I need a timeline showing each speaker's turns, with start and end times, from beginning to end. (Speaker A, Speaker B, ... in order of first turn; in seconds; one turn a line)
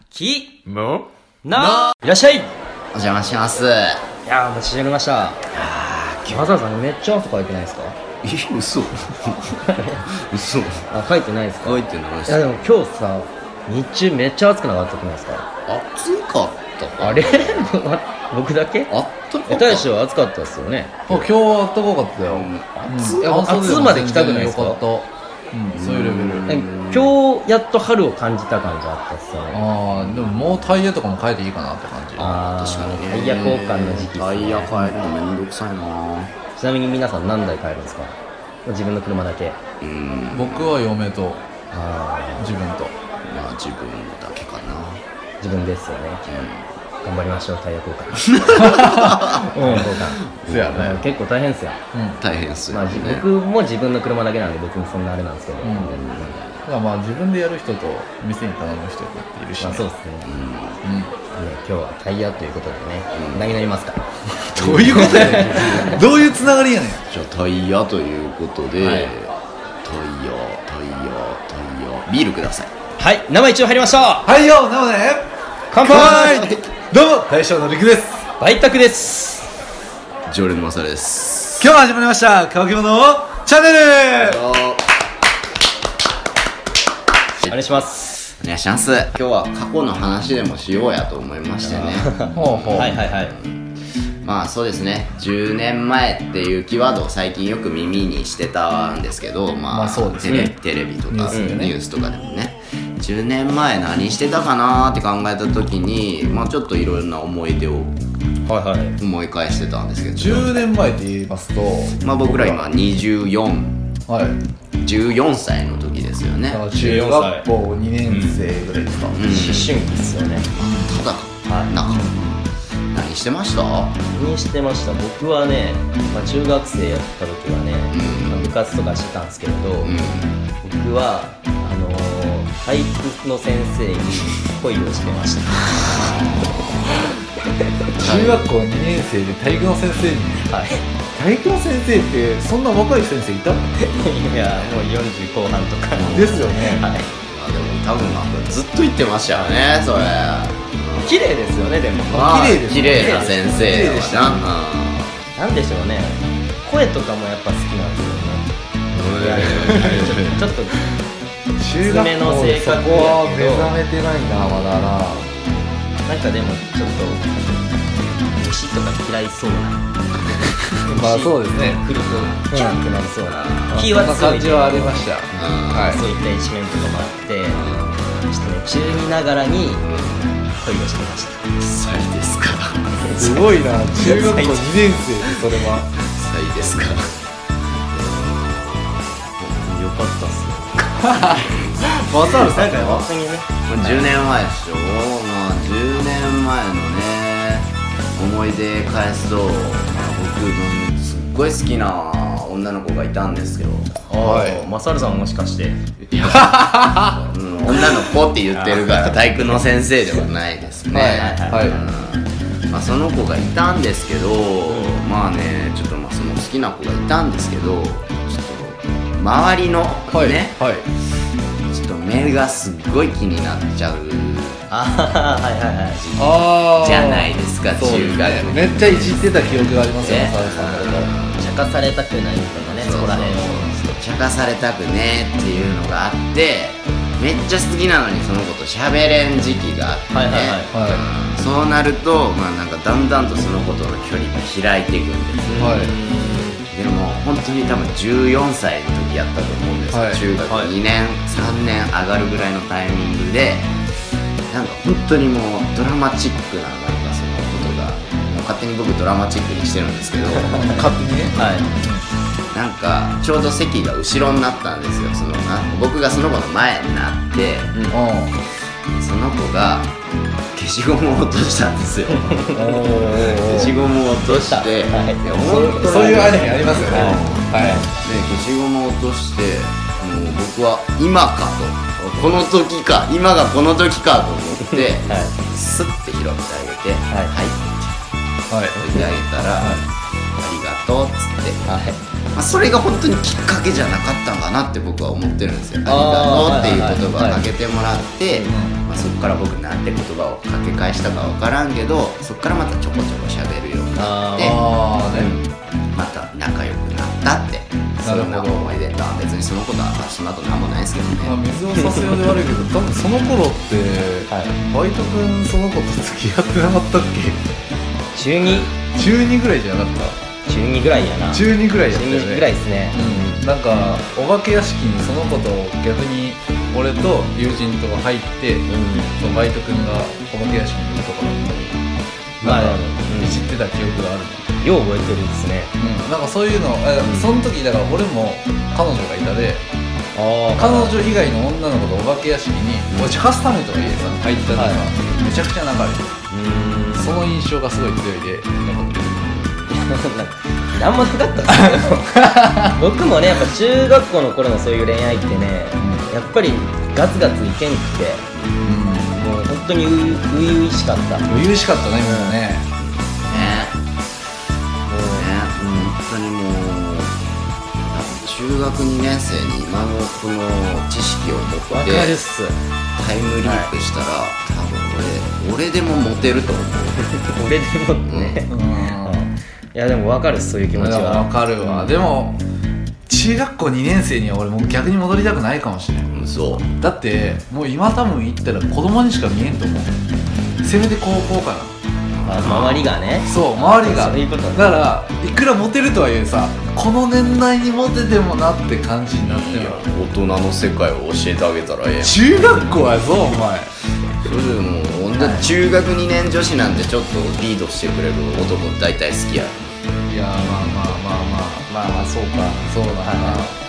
Speaker A: 0.1-2.5
Speaker B: 1.6-1.9
Speaker B: 2.9-4.0
Speaker A: 4.3-5.4
Speaker B: 5.5-6.6
Speaker A: 6.3-8.0
Speaker B: 8.2-10.9
Speaker A: 9.7-10.0
Speaker A: 10.9-15.5
Speaker B: 11.6-12.7
Speaker B: 15.7-17.7
Speaker A: 17.0-18.9
Speaker B: 18.9-19.9
Speaker A: 19.5-21.0
Speaker C: 21.1-26.6
Speaker B: 22.2-24.0
Speaker A: 23.2-24.8
Speaker B: 25.7-27.1
Speaker A: 26.5-29.7
Speaker C: 29.5-32.3
Speaker B: 29.9-30.5
Speaker B: 32.2-36.3
Speaker A: 32.2-35.0
Speaker A: 36.5-39.6
Speaker B: 39.8-40.8
Speaker C: 40.3-41.4
Speaker A: 41.7-42.5
Speaker C: 42.4-42.9
Speaker B: 43.2-45.0
Speaker A: 45.4-46.2
Speaker B: 46.3-46.7
Speaker A: 47.0-48.2
Speaker B: 48.2-51.1
Speaker C: 48.6-49.9
Speaker A: 49.3-51.8
Speaker C: 50.5-50.9
Speaker C: 51.9-52.2
Speaker B: 52.2-53.3
Speaker A: 52.7-55.9
Speaker C: 55.6-56.0
Speaker B: 55.8-56.6
Speaker C: 56.7-59.9
Speaker A: 59.6-60.3
Speaker B: 60.2-60.8
Speaker C: 60.8-61.1
Speaker A: 61.3-64.0
Speaker B: 63.1-63.5
Speaker C: 64.5-67.0
Speaker B: 64.6-65.4
Speaker A: 64.6-66.0
Speaker B: 67.1-72.7
Speaker A: 68.8-69.1
Speaker A: 73.0-74.3
Speaker C: 74.2-78.2
Speaker A: 75.7-76.6
Speaker A: 78.4-79.5
Speaker B: 80.3-81.7
Speaker C: 81.6-84.4
Speaker B: 84.2-84.9
Speaker A: 87.5-88.2
Speaker B: 88.3-93.6
Speaker A: 91.6-93.3
Speaker C: 92.3-93.0
Speaker B: 94.2-108.0
Speaker C: 99.7-100.5
Speaker C: 101.1-101.7
Speaker A: 101.3-101.6
Speaker A: 108.5-109.0
Speaker B: 109.0-110.6
Speaker C: 110.2-112.7
Speaker B: 112.0-113.8
Speaker C: 114.1-114.4
Speaker B: 114.8-116.6
Speaker C: 116.5-119.4
Speaker A: 116.8-117.5
Speaker A: 118.1-118.4
Speaker B: 119.2-119.8
Speaker A: 119.3-120.5
Speaker C: 120.6-121.0
Speaker B: 120.9-122.2
Speaker A: 121.5-121.7
Speaker C: 121.9-122.4
Speaker B: 122.9-124.0
Speaker A: 124.1-129.9
Speaker B: 127.9-128.5
Speaker B: 129.8-130.4
Speaker A: 130.6-135.7
Speaker B: 135.9-136.8
Speaker C: 138.0-140.5
Speaker B: 138.0-138.5
Speaker A: 140.4-140.8
Speaker C: 141.2-143.7
Speaker A: 143.8-147.1
Speaker B: 146.0-146.5
Speaker C: 146.1-146.9
Speaker B: 147.1-151.4
Speaker A: 151.0-154.0
Speaker C: 152.1-154.4
Speaker B: 152.1-155.2
Speaker A: 155.3-158.5
Speaker B: 158.9-160.4
Speaker A: 159.0-160.8
Speaker C: 159.4-160.2
Speaker C: 161.6-165.3
Speaker A: 161.8-163.8
Speaker B: 164.3-165.9
Speaker A: 166.1-167.7
Speaker A: 168.2-169.8
Speaker C: 170.8-171.8
Speaker A: 170.9-177.6
Speaker B: 171.9-172.5
Speaker C: 172.5-172.8
Speaker B: 173.2-173.9
Speaker C: 173.7-176.0
Speaker B: 175.3-176.0
Speaker B: 177.5-178.0
Speaker A: 178.3-179.9
Speaker B: 179.8-180.4
Speaker A: 180.5-181.4
Speaker B: 181.6-182.9
Speaker A: 183.0-185.0
Speaker C: 183.2-185.9
Speaker B: 186.0-189.7
Speaker A: 189.6-191.3
Speaker B: 191.0-193.1
Speaker C: 191.1-191.4
Speaker C: 192.0-193.0
Speaker A: 192.2-194.1
Speaker B: 193.7-204.7
Speaker A: 204.1-205.8
Speaker C: 204.2-204.6
Speaker B: 206.0-220.6
Speaker C: 206.3-207.1
Speaker A: 208.5-209.6
Speaker C: 210.9-211.8
Speaker A: 211.2-211.8
Speaker A: 214.7-214.9
Speaker C: 220.1-220.9
Speaker B: 221.7-224.6
Speaker A: 224.7-226.0
Speaker B: 225.9-231.4
Speaker C: 226.2-231.1
Speaker A: 231.3-233.6
Speaker B: 232.6-245.8
Speaker A: 240.1-240.8
Speaker C: 240.7-241.0
Speaker A: 245.5-246.7
Speaker C: 245.6-245.9
Speaker B: 246.7-253.7
Speaker C: 249.9-250.2
Speaker A: 250.5-250.7
Speaker B: 254.5-260.6
Speaker A: 260.5-260.9
Speaker C: 260.6-262.0
Speaker A: 261.4-261.7
Speaker B: 262.5-267.8
Speaker A: 267.7-268.0
Speaker C: 267.9-268.4
Speaker B: 268.9-269.9
Speaker B: 270.5-272.5
Speaker A: 272.1-277.9
Speaker C: 272.5-273.8
Speaker B: 273.4-288.0
Speaker C: 275.4-277.8
Speaker A: 284.6-285.3
Speaker C: 288.5-288.8
Speaker B: 288.7-289.9
Speaker B: 290.4-291.8
Speaker A: 291.7-292.0
Speaker B: 292.3-311.4
Speaker A: 295.8-297.4
Speaker C: 298.5-298.8
Speaker A: 303.9-304.7
Speaker C: 304.4-305.3
Speaker C: 308.0-308.7
Speaker C: 311.2-317.4
Speaker A: 311.8-312.3
Speaker A: 314.3-314.6
Speaker A: 318.1-318.7
Speaker C: 318.5-320.2
Speaker A: 320.4-323.5
Speaker C: 321.3-331.6
Speaker A: 328.7-329.1
Speaker B: 331.5-331.8
Speaker A: 332.4-333.4
Speaker C: 332.4-334.5
Speaker A: 334.6-335.7
Speaker C: 335.8-339.6
Speaker A: 337.0-337.3
Speaker A: 340.1-341.0
Speaker C: 340.6-346.2
Speaker B: 342.9-343.2
Speaker A: 344.5-344.9
Speaker A: 346.3-347.1
Speaker C: 346.9-349.4
Speaker B: 349.2-349.7
Speaker A: 349.7-352.1
Speaker C: 351.5-352.8
Speaker A: 352.7-358.3
Speaker C: 355.8-356.1
Speaker B: 358.3-358.6
Speaker C: 358.6-359.2
Speaker A: 359.1-361.4
Speaker C: 361.3-362.7
Speaker A: 362.0-362.4
Speaker B: 362.8-363.8
Speaker C: 363.3-363.6
Speaker A: 364.9-365.3
Speaker B: 365.0-367.2
Speaker B: 367.9-372.2
Speaker A: 371.7-372.6
Speaker B: 372.9-377.0
Speaker A: 373.4-373.7
Speaker A: 377.0-381.3
Speaker B: 378.1-378.4
Speaker C: 378.5-379.3
Speaker C: 380.8-382.4
Speaker B: 381.6-382.0
Speaker C: 383.1-386.1
Speaker B: 386.1-386.7
Speaker C: 386.7-389.9
Speaker C: 390.6-391.7
Speaker B: 392.2-392.9
Speaker A: 392.2-394.9
Speaker C: 393.2-399.8
Speaker B: 399.1-402.7
Speaker C: 402.0-403.7
Speaker B: 404.2-409.9
Speaker A: 405.2-405.5
Speaker C: 410.1-411.7
Speaker A: 411.7-413.5
Speaker C: 412.6-413.5